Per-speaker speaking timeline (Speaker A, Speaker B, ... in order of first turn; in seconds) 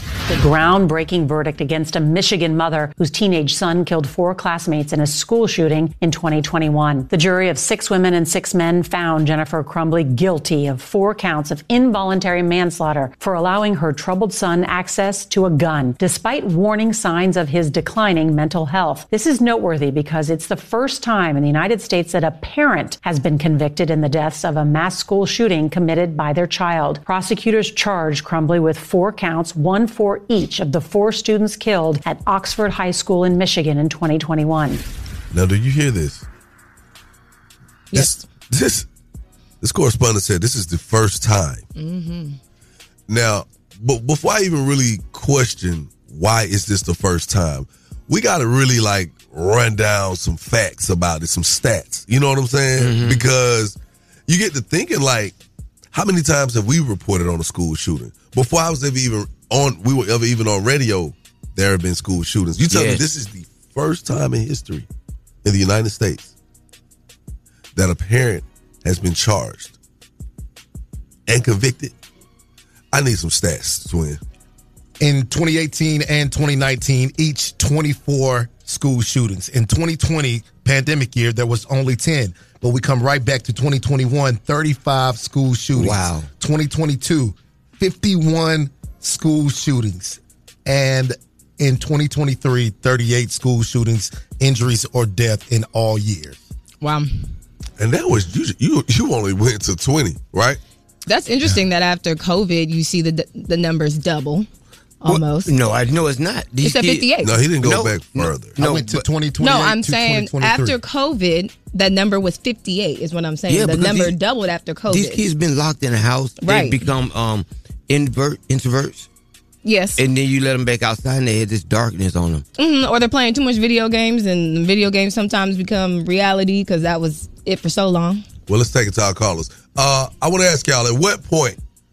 Speaker A: 0.3-34.8
Speaker B: 35.3-36.2, 37.9-38.9, 39.6-41.6, 43.1-55.4, 55.9-64.9, 65.4-66.3, 67.7-69.7, 71.3-71.9, 72.9-74.2, 97.8-100.6, 107.2-108.6, 128.5-131.6
Speaker C: 37.9-38.2, 41.8-42.4, 96.8-97.1, 101.1-104.5, 105.0-105.5, 106.6-107.4, 109.4-115.2, 116.4-116.9, 119.6-120.0, 122.6-128.2
Speaker D: 52.8-53.2, 62.7-63.1, 85.7-86.3, 105.0-109.1, 113.5-114.2, 114.9-119.1, 120.0-122.4
Speaker E: 75.0-96.4, 108.6-110.8